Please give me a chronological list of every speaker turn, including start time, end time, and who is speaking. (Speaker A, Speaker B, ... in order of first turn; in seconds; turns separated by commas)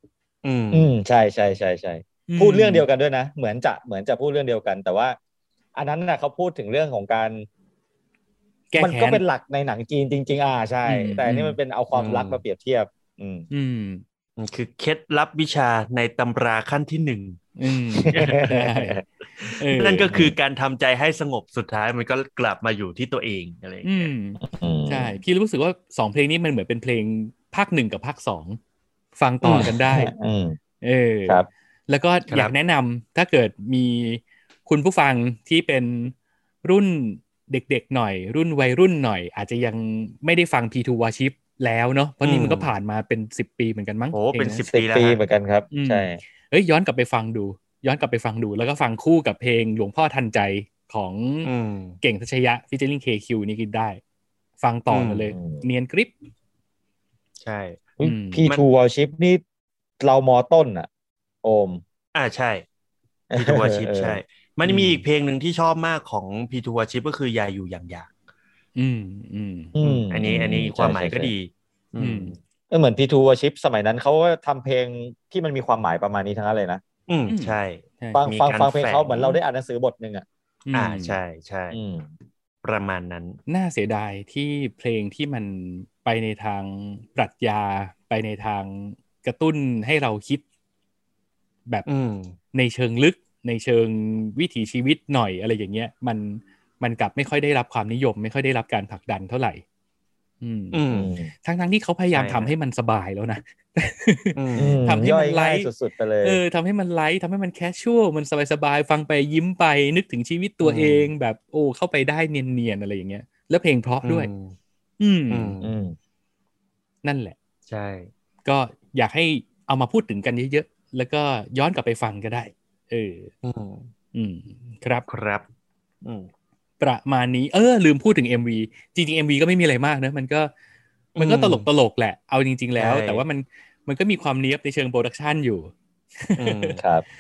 Speaker A: 0.4-0.9, Speaker B: 0.7-5.2, Speaker C: 2.3-2.9, Speaker B: 5.8-7.5, Speaker C: 8.7-9.2, Speaker B: 8.8-13.5, Speaker C: 10.9-11.6, Speaker A: 11.9-12.4, Speaker C: 13.5-14.0, Speaker A: 14.4-17.4, Speaker C: 17.6-20.1, Speaker B: 18.0-19.0, Speaker A: 18.1-18.5, Speaker A: 19.7-24.1, Speaker B: 20.1-20.4, Speaker C: 23.8-28.6, Speaker B: 24.4-25.2, Speaker C: 29.2-30.1, Speaker A: 29.4-29.7, Speaker B: 29.6-30.6, Speaker C: 30.8-44.7, Speaker A: 42.2-42.7, Speaker A: 44.1-45.2, Speaker B: 44.7-46.2, Speaker C: 45.7-51.5, Speaker A: 51.5-52.0, Speaker C: 52.0-54.0, Speaker C: 54.6-56.1, Speaker A: 54.9-55.3, Speaker B: 55.4-55.6, Speaker A: 57.4-57.9, Speaker B: 58.0-59.4, Speaker C: 58.0-58.5, Speaker B: 60.0-60.9, Speaker B: 61.4-61.8, Speaker A: 62.1-62.6, Speaker B: 63.3-64.2, Speaker A: 63.4-68.1, Speaker C: 64.7-65.0, Speaker C: 68.8-69.8, Speaker B: 69.8-71.3, Speaker A: 69.8-72.4, Speaker C: 72.0-72.3, Speaker B: 72.7-76.8, Speaker A: 77.1-79.4, Speaker C: 77.3-78.2, Speaker B: 78.2-80.2, Speaker C: 80.7-81.2, Speaker A: 80.7-81.8, Speaker B: 81.7-82.1, Speaker A: 82.6-83.4, Speaker C: 83.5-90.4, Speaker A: 91.9-92.4, Speaker C: 92.5-99.6, Speaker C: 100.4-100.8, Speaker A: 100.7-101.1, Speaker B: 100.9-101.3, Speaker C: 101.4-105.7, Speaker A: 102.1-102.5, Speaker A: 104.4-104.8, Speaker B: 104.6-106.4, Speaker C: 106.2-114.3, Speaker A: 110.6-111.1, Speaker A: 114.0-114.5, Speaker C: 115.0-115.5, Speaker A: 115.3-115.7, Speaker B: 115.6-116.0, Speaker C: 117.0-117.4, Speaker A: 117.7-118.1, Speaker C: 118.5-123.3, Speaker A: 123.4-123.9, Speaker C: 124.1-125.1, Speaker A: 125.1-125.5, Speaker C: 126.8-130.5, Speaker A: 131.2-131.7, Speaker C: 131.2-136.8, Speaker A: 132.8-133.2, Speaker A: 136.4-136.8, Speaker B: 136.8-137.0